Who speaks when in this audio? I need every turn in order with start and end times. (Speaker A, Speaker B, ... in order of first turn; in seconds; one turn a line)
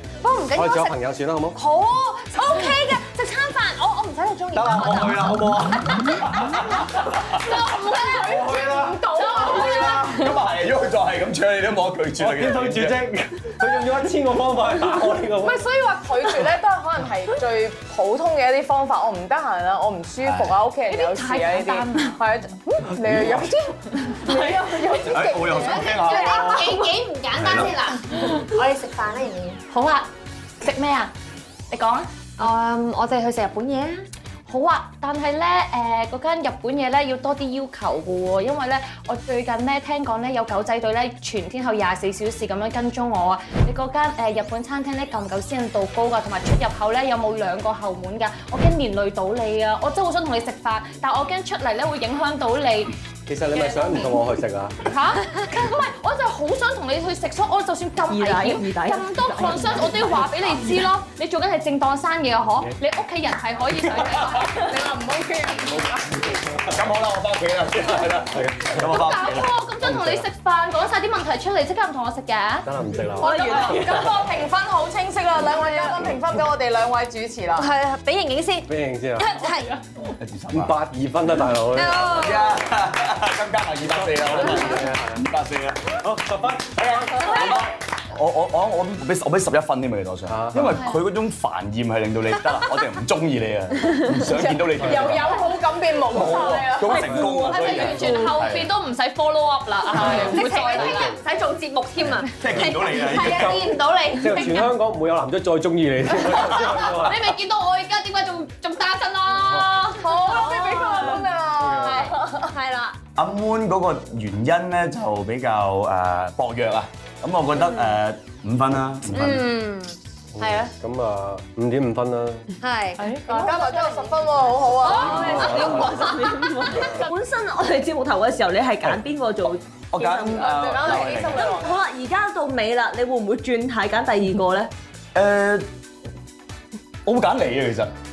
Speaker A: 0.2-0.9
Speaker B: 0.5-1.6
Speaker A: 1.5-5.3
Speaker C: 4.5-7.3
Speaker D: 7.0-8.4
Speaker E: 7.3-10.0
Speaker B: 8.2-9.0
Speaker D: 9.1-10.3
Speaker C: 9.3-13.1
Speaker B: 12.2-15.7
Speaker E: 15.4-26.2
Speaker C: 20.2-20.6
Speaker D: 20.9-22.2
Speaker C: 23.0-23.4
Speaker F: 24.3-24.9
Speaker C: 24.9-27.8
Speaker A: 25.9-29.6
Speaker D: 26.6-27.0
Speaker D: 27.6-28.4
Speaker D: 29.7-30.1
Speaker D: 30.6-31.1
Speaker D: 31.7-32.1
Speaker A: 32.4-34.0
Speaker D: 34.5-52.9
Speaker B: 53.3-54.8
Speaker D: 53.5-54.3
Speaker D: 54.9-64.7
Speaker F: 58.1-60.7
Speaker E: 64.2-66.3
Speaker C: 66.5-69.5
Speaker B: 68.3-68.8
Speaker D: 68.7-73.9
Speaker B: 69.8-70.2
Speaker B: 72.6-73.3
Speaker F: 73.2-74.1
Speaker E: 73.2-77.7
Speaker A: 75.7-75.9
Speaker A: 77.5-79.7
Speaker B: 78.7-79.3
Speaker D: 79.3-79.8
Speaker C: 80.2-80.8
Speaker B: 80.5-82.2
Speaker A: 81.7-82.6
Speaker C: 81.9-86.0
Speaker B: 84.2-85.2
Speaker B: 86.0-87.4
Speaker C: 86.6-95.4
Speaker B: 90.3-90.8
Speaker E: 94.1-97.8
Speaker B: 94.8-95.2
Speaker C: 96.1-98.7
Speaker D: 96.2-101.2
Speaker B: 100.0-101.2
Speaker A: 100.2-104.7
Speaker C: 102.4-103.7
Speaker B: 102.4-107.2
Speaker D: 106.5-110.5
Speaker E: 110.0-112.5
Speaker A: 110.3-111.2
Speaker B: 111.0-112.1
Speaker D: 111.8-112.1
Speaker A: 111.8-113.0
Speaker C: 113.2-119.5
Speaker A: 117.6-117.9
Speaker A: 119.1-120.7
Speaker B: 120.3-122.5
Speaker A: 122.6-124.1
Speaker E: 123.0-125.8
Speaker D: 123.0-123.3
Speaker D: 124.8-127.1
Speaker F: 125.0-134.7
Speaker C: 125.0-126.1
Speaker B: 125.2-125.5
Speaker C: 129.9-131.5
Speaker E: 130.2-131.8
Speaker C: 135.1-135.7
Speaker C: 137.0-137.9